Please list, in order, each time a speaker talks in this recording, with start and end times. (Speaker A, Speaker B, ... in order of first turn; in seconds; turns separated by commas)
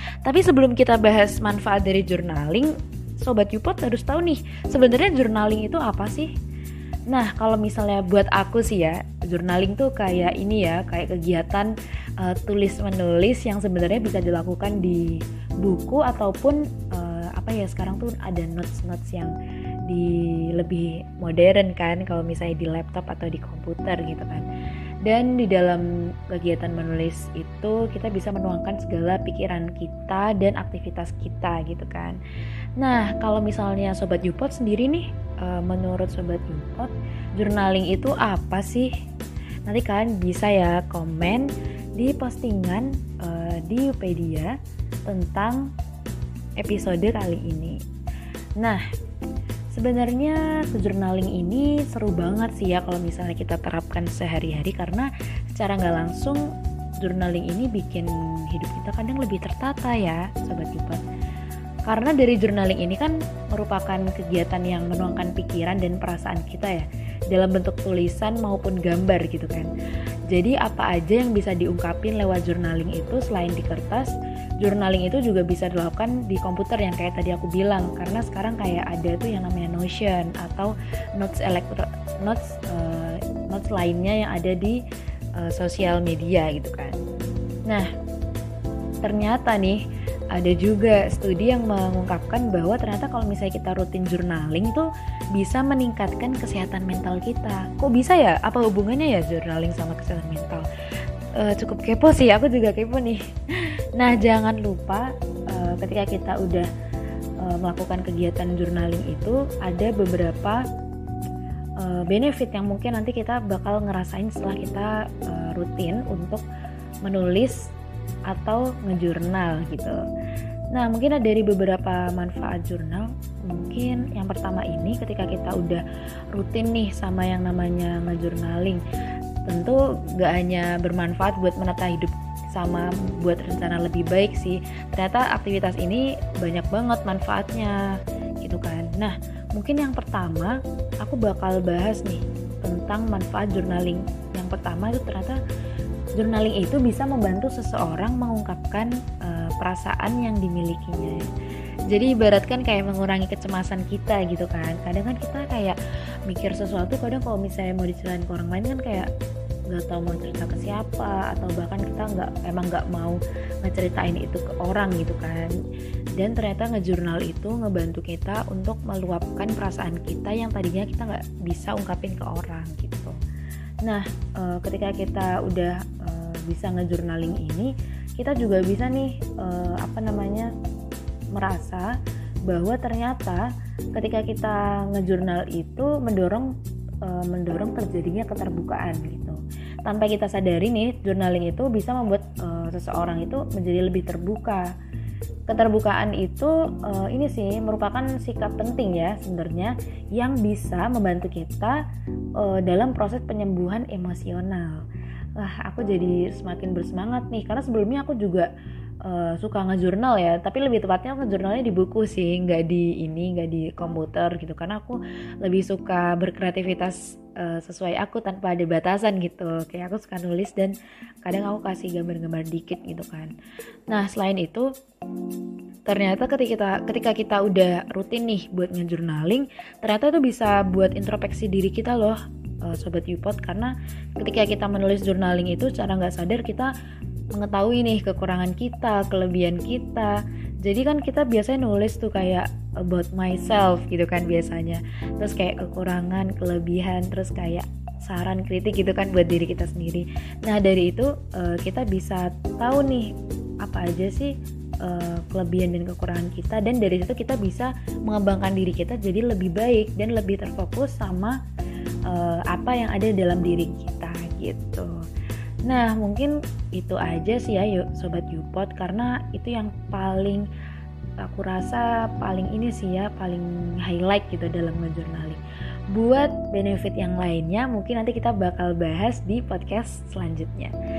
Speaker A: 0.2-6.3, Speaker A: 7.1-19.4, Speaker A: 19.9-24.5, Speaker A: 25.1-32.2, Speaker A: 32.8-38.9, Speaker A: 39.7-44.5, Speaker A: 45.1-45.7, Speaker A: 46.6-47.8, Speaker A: 49.7-56.4, Speaker A: 57.0-61.0, Speaker A: 61.9-69.7, Speaker A: 70.3-74.1, Speaker A: 74.6-84.8, Speaker A: 85.4-87.0, Speaker A: 89.0-89.8, Speaker A: 90.3-100.7, Speaker A: 101.4-106.7, Speaker A: 107.4-110.6, Speaker A: 111.8-116.4, Speaker A: 117.0-117.6, Speaker A: 118.3-120.0, Speaker A: 120.7-125.8, Speaker A: 126.3-128.8, Speaker A: 129.5-137.8, Speaker A: 138.4-145.4, Speaker A: 146.2-151.2, Speaker A: 151.9-159.1, Speaker A: 159.7-165.5, Speaker A: 166.2-173.2, Speaker A: 173.8-180.5, Speaker A: 181.3-181.9, Speaker A: 182.5-186.5, Speaker A: 187.0-194.7, Speaker A: 195.5-201.8, Speaker A: 202.4-204.8, Speaker A: 205.4-208.5, Speaker A: 209.0-223.3, Speaker A: 223.9-224.7, Speaker A: 225.9-236.7, Speaker A: 237.3-253.1, Speaker A: 253.6-261.4, Speaker A: 262.1-264.9, Speaker A: 265.7-270.5, Speaker A: 271.2-275.4, Speaker A: 275.9-280.7